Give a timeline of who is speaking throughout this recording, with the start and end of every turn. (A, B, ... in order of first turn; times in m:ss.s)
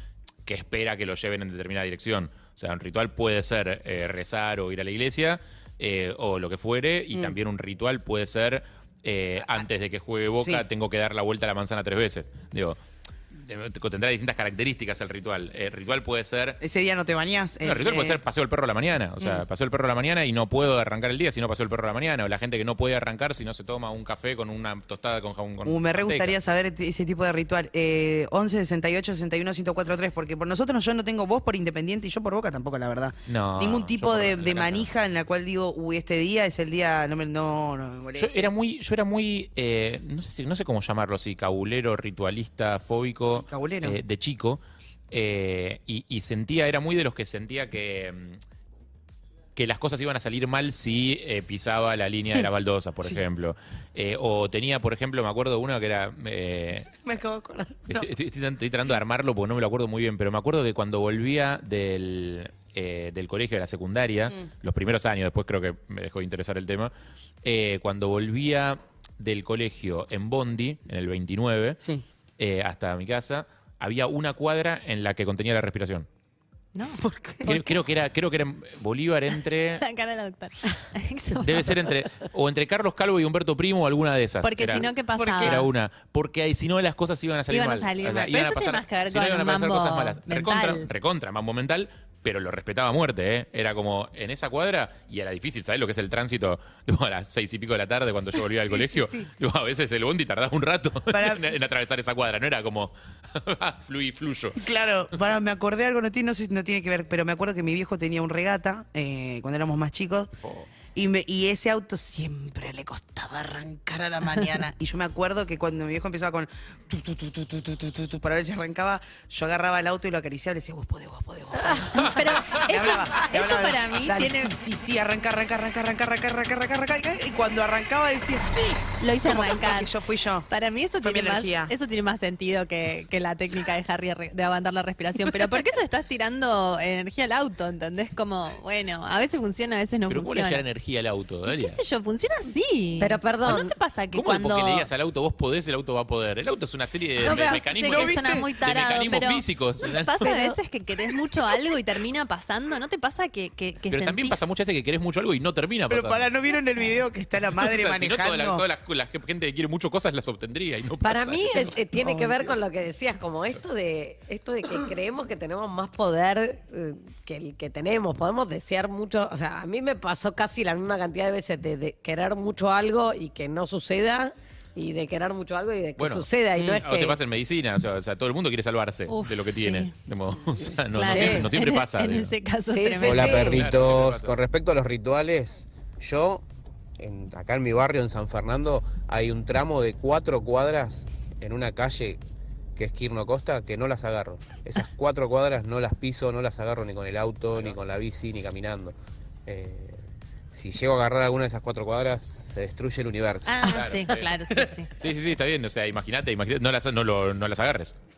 0:00.4-0:12.8 A
0:10.4-0:10.6 B
0:13.3-0:16.6 A
0:16.6-0:18.2 B
0:17.6-0:26.4 A
0:25.7-0:38.5 B
0:33.3-0:34.9 A
0:38.2-0:48.4 A
0:43.3-0:44.0 B
0:49.6-0:56.9 A
0:57.0-0:58.1 B
0:57.9-1:11.8 A
1:12.4-1:16.1 A
1:16.8-1:17.0 C
1:17.0-1:17.6 B
1:17.4-1:19.8 A
1:19.8-1:21.9 C
1:21.3-1:44.7 A
1:24.4-1:25.6 C
1:25.2-1:25.6 B
1:27.5-1:30.9 C
1:38.7-1:39.3 B
1:41.1-1:41.4 B
1:44.6-1:50.3 B
1:50.4-1:50.7 A
1:51.0-2:10.5 B
2:02.0-2:04.5 C
2:09.0-2:09.9 C
2:10.5-2:20.6 C
2:11.0-2:11.7 B
2:20.1-2:21.8 A
2:21.5-2:24.9 C
2:23.0-2:23.7 D
2:24.1-2:30.4 A
2:27.2-2:34.4 C
2:27.2-2:27.5 D
2:27.9-2:28.4 B
2:33.9-2:36.3 A
2:35.9-2:38.6 B
2:36.5-2:37.0 C
2:37.5-2:42.4 A
2:41.0-2:57.2 D
2:56.0-3:02.3 A
2:59.1-2:59.9 C
3:00.9-3:03.6 C
3:01.1-3:01.5 D
3:02.6-3:03.6 D
3:03.0-3:06.4 E
3:03.2-3:04.3 A
3:07.0-3:12.2 E
3:12.8-3:19.0 E
3:19.5-3:23.8 E
3:23.5-3:24.9 C
3:23.6-3:24.3 A
3:25.0-3:28.0 A